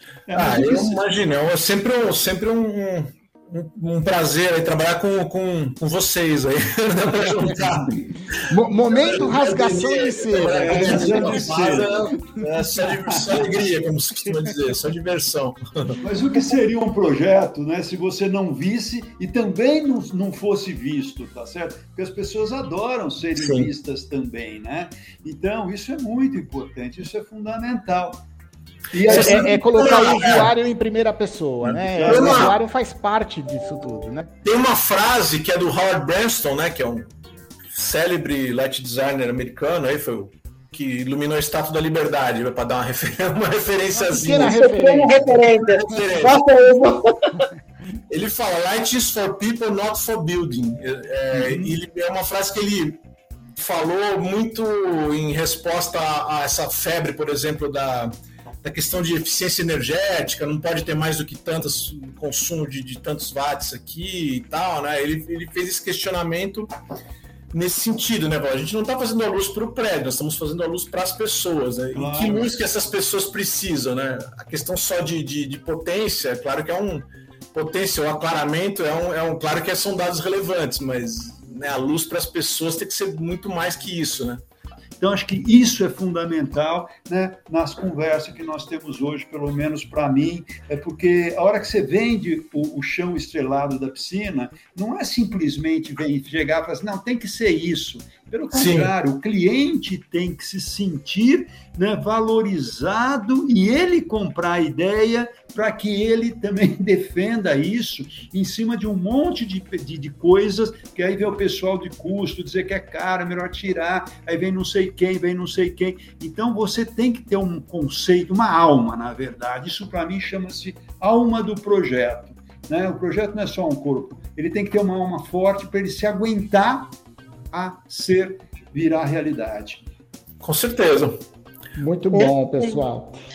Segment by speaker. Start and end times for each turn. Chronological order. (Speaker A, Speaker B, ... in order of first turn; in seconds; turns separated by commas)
Speaker A: 0.3-1.0, Speaker B: 0.3-16.0, Speaker C: 8.5-11.5, Speaker A: 10.6-12.2, Speaker A: 12.7-13.4, Speaker A: 16.0-28.2, Speaker B: 23.4-23.7, Speaker A: 28.9-30.4, Speaker B: 29.0-30.5, Speaker C: 29.1-34.3, Speaker B: 31.6-32.6, Speaker A: 31.9-32.5, Speaker B: 34.4-37.1, Speaker B: 37.7-44.6, Speaker C: 43.9-45.3, Speaker D: 44.4-47.5, Speaker B: 45.2-46.4, Speaker B: 48.1-53.0, Speaker A: 51.3-51.7, Speaker B: 53.5-66.7, Speaker B: 67.5-84.4, Speaker A: 71.9-72.5, Speaker A: 85.0-126.9, Speaker B: 98.5-98.9, Speaker A: 127.5-129.8, Speaker B: 130.4-131.2, Speaker C: 131.7-133.2, Speaker D: 132.1-132.8